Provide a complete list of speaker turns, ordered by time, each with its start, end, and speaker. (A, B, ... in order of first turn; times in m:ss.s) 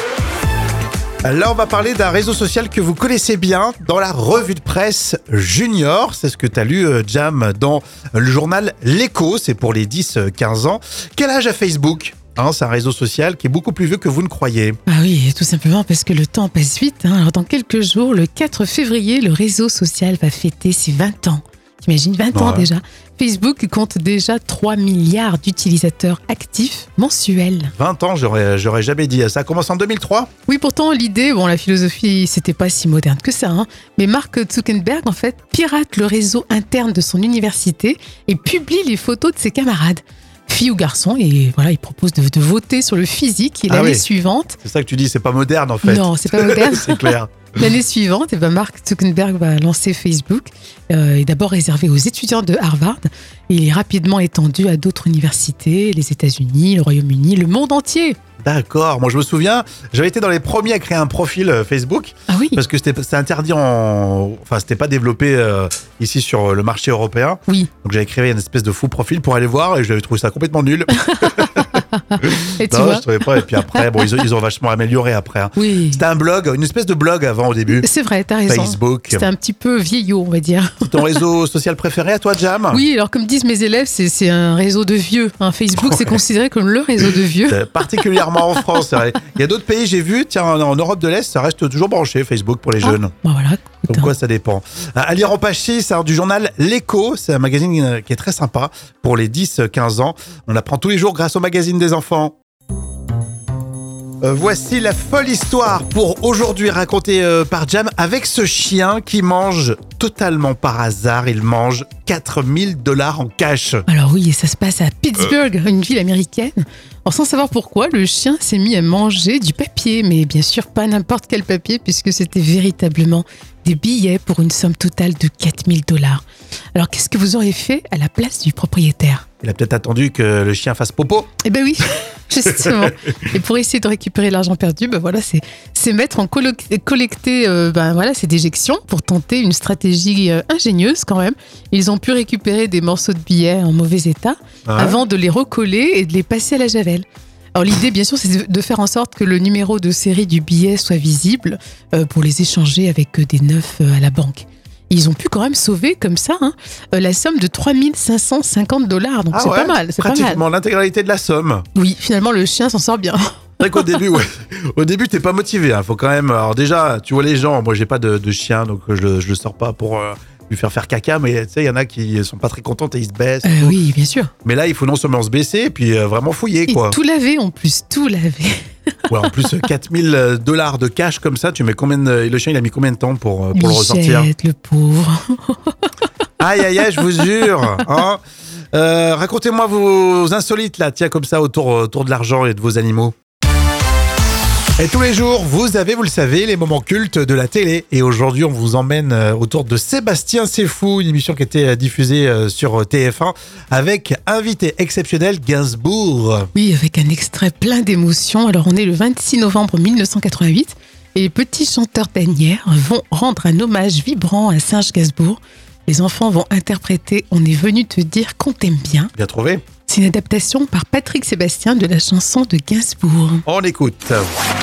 0:01.2-0:14.8 A
0:14.9-0:27.7 B
0:22.3-0:22.7 A
0:27.8-0:30.3 A
0:30.5-0:44.6 B
0:43.7-0:44.0 A
0:44.6-0:47.5 A
0:45.8-0:58.2 B
0:58.4-1:17.9 A
1:02.3-1:02.6 B
1:11.0-1:14.1 B
1:15.6-1:16.0 B
1:17.7-1:21.2 B
1:18.5-1:19.3 A
1:20.8-1:22.8 A
1:22.7-1:28.8 B
1:25.8-1:26.2 A
1:27.5-1:33.1 A
1:32.8-1:34.1 B
1:33.9-1:42.3 A
1:44.2-1:53.8 A
1:53.9-2:06.2 B
2:06.7-2:09.2 B
2:09.4-2:11.3 A
2:11.4-2:27.0 B
2:24.6-2:25.0 A
2:27.6-2:40.4 B
2:39.3-2:41.6 A
2:41.7-2:44.0 B
2:43.6-2:53.8 A
2:53.4-2:54.3 B
2:54.4-2:57.0 A
2:56.7-2:58.7 B
2:59.1-3:04.3 A
3:03.5-3:05.8 B
3:06.4-3:08.2 A
3:08.7-3:13.1 A
3:14.8-3:26.5 A
3:26.5-3:39.1 B
3:39.2-3:39.6 A
3:39.9-3:43.4 B
3:43.4-3:44.2 A